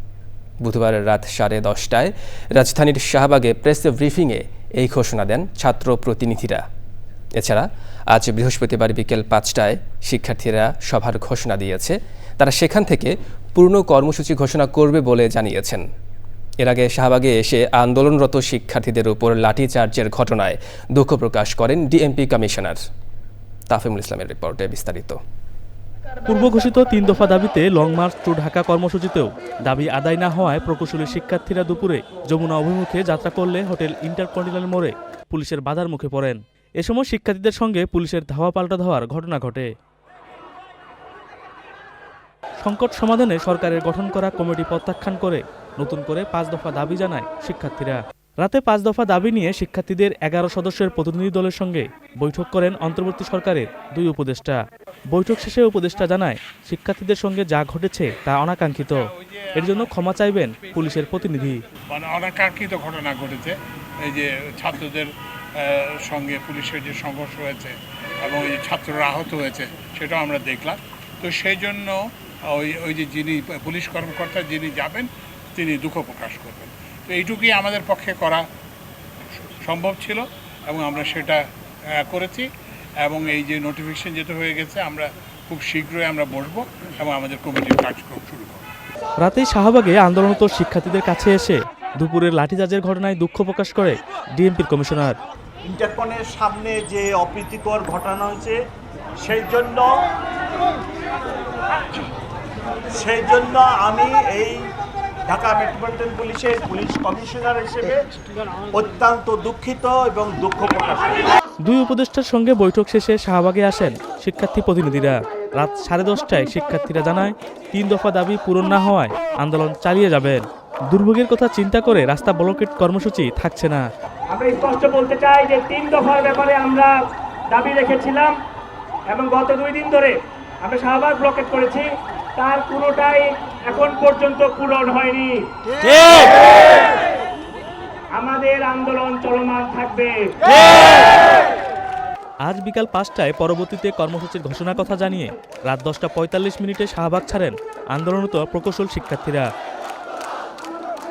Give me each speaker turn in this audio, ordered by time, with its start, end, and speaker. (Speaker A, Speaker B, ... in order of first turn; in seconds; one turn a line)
Speaker A: 0.6-6.6
Speaker A: 7.4-15.8
Speaker A: 16.6-22.8
Speaker A: 23.7-25.2
Speaker B: 26.2-39.7
Speaker B: 42.6-54.6
Speaker B: 55.1-61.6
Speaker C: 58.8-59.9
Speaker C: 61.9-72.0
Speaker C: 72.5-78.4
Speaker C: 79.5-81.4
Speaker C: 82.0-82.5
Speaker C: 83.0-88.7
Speaker B: 89.2-95.2
Speaker D: 95.7-98.6
Speaker D: 99.2-100.0
Speaker D: 102.9-104.6
Speaker D: 105.3-108.0
Speaker D: 108.7-111.3
Speaker B: 111.6-123.8
Speaker E: 124.3-126.9
Speaker E: 127.5-128.3
Speaker E: 129.1-135.4
Speaker E: 136.0-136.7
Speaker E: 138.1-141.0
Speaker B: 142.4-149.5